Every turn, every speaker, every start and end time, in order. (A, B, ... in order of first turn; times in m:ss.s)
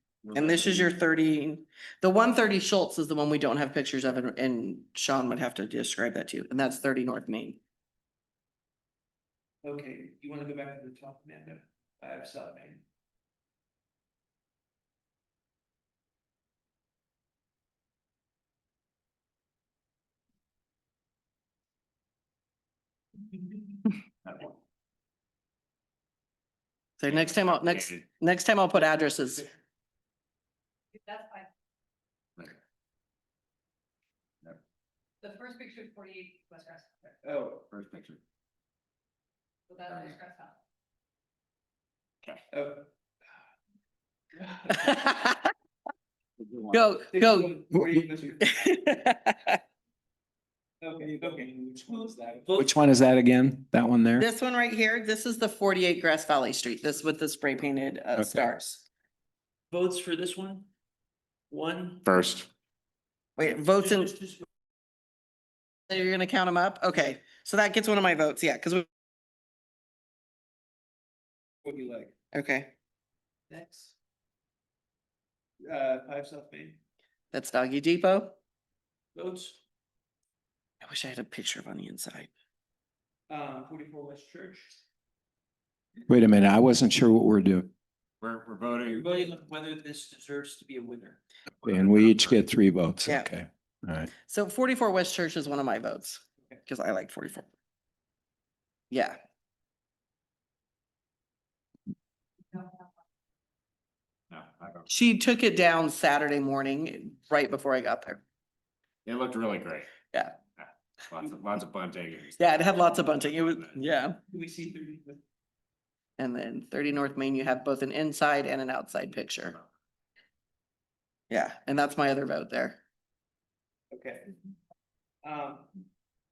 0:00.2-0:01.0 A
0:00.4-0:07.6 B
0:09.6-0:12.8 C
0:24.3-0:24.5 A
0:27.0-0:29.5 B
0:27.1-0:28.0 A
0:31.0-0:31.5 D
0:35.2-0:36.9 D
0:37.2-0:37.6 C
0:37.7-0:38.2 A
0:39.7-0:40.6 D
0:39.9-0:40.2 A
0:42.5-0:42.9 C
0:44.4-0:44.9 C
0:44.7-0:45.5 B
0:46.4-0:46.8 A
0:46.7-0:47.6 B
0:47.1-0:48.5 C
0:48.4-0:49.6 B
0:50.8-0:52.8 C
0:52.6-0:54.3 E
0:54.2-0:58.9 B
0:59.7-1:00.7 C
1:01.5-1:02.0 C
1:02.0-1:02.5 A
1:03.4-1:04.2 B
1:04.0-1:04.4 C
1:05.9-1:08.9 B
1:11.6-1:12.1 C
1:12.3-1:12.7 B
1:13.5-1:14.0 C
1:15.6-1:16.8 C
1:17.3-1:18.4 B
1:19.2-1:19.6 C
1:20.8-1:22.3 B
1:23.3-1:24.8 C
1:26.1-1:27.7 E
1:28.2-1:29.1 A
1:28.9-1:31.2 C
1:31.6-1:32.4 A
1:31.6-1:34.1 E
1:34.2-1:37.5 B
1:38.9-1:39.2 B
1:44.3-1:44.9 A
1:44.9-1:48.2 B
1:49.0-1:49.9 A
1:50.6-1:53.8 A
1:52.4-1:54.2 B
1:54.3-1:55.2 C
1:56.2-1:59.6 B
2:01.3-2:02.8 B
2:03.9-2:04.3 C
2:05.2-2:05.7 C